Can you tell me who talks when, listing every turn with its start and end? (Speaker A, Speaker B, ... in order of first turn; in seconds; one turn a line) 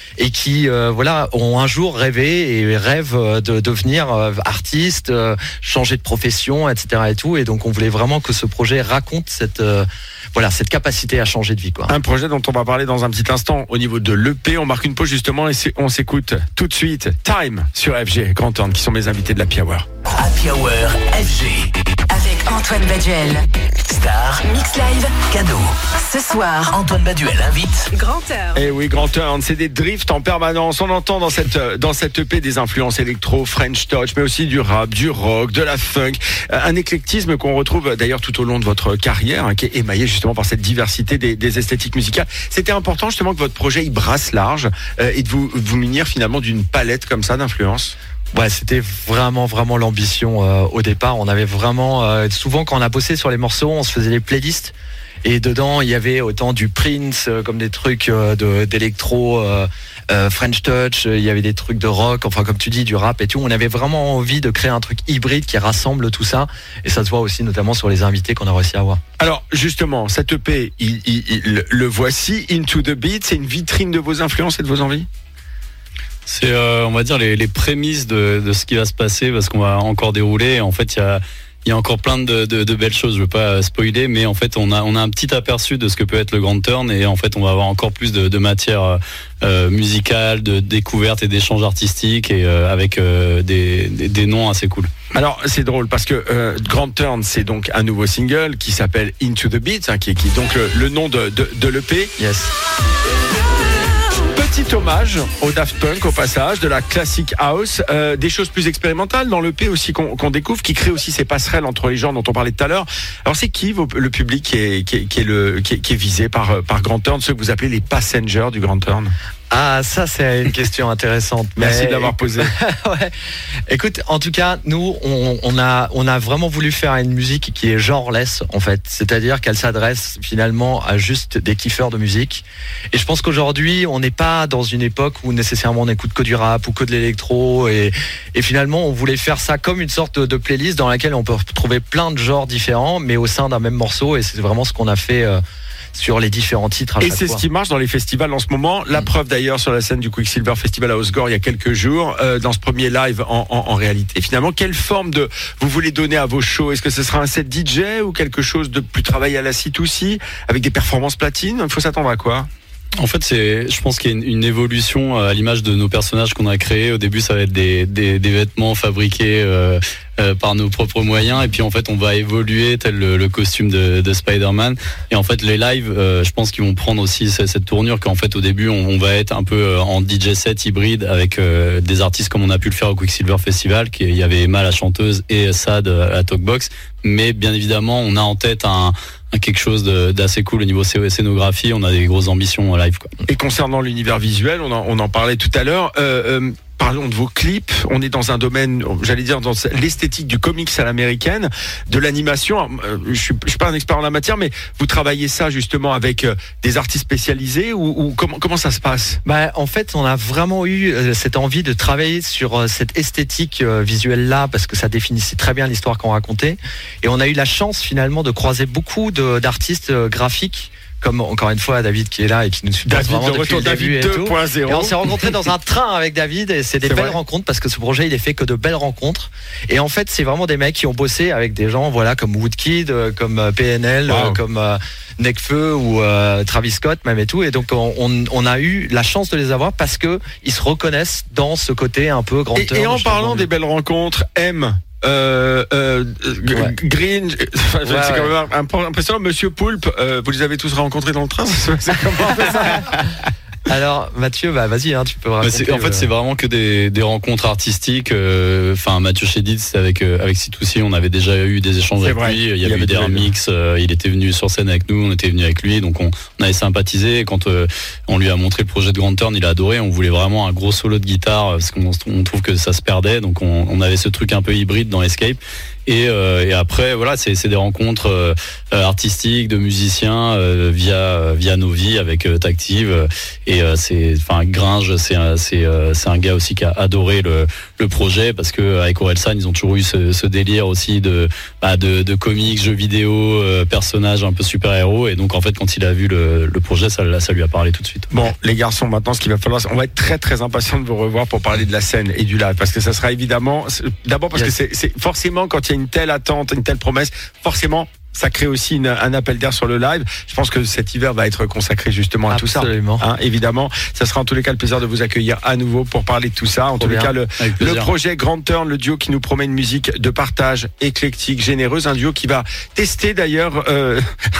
Speaker A: 0.2-11.9
Speaker B: 11.9-19.9
Speaker C: 20.1-21.7
Speaker D: 22.1-23.5
Speaker C: 23.9-25.9
Speaker D: 24.4-25.2
Speaker D: 25.9-26.7
Speaker C: 26.6-27.9
Speaker D: 27.9-28.6
Speaker B: 28.5-48.0
Speaker A: 48.3-69.0
Speaker B: 69.2-75.1
Speaker E: 76.2-94.9
Speaker B: 95.1-102.1
Speaker A: 102.2-102.5
Speaker B: 104.3-119.1
Speaker A: 119.5-123.1
Speaker B: 121.5-122.5
Speaker A: 123.7-145.4
Speaker A: 145.9-147.4
Speaker B: 147.0-162.5
Speaker E: 163.0-193.1
Speaker B: 193.3-209.2
Speaker A: 209.2-243.5
Speaker B: 222.8-225.3
Speaker B: 226.8-227.2
Speaker B: 234.1-234.4
Speaker B: 242.5-253.1
Speaker A: 247.8-248.3
Speaker A: 253.7-256.1
Speaker E: 255.4-298.1
Speaker B: 262.0-263.3
Speaker B: 298.1-324.0
Speaker A: 312.3-313.1
Speaker A: 316.8-317.1
Speaker E: 317.4-317.9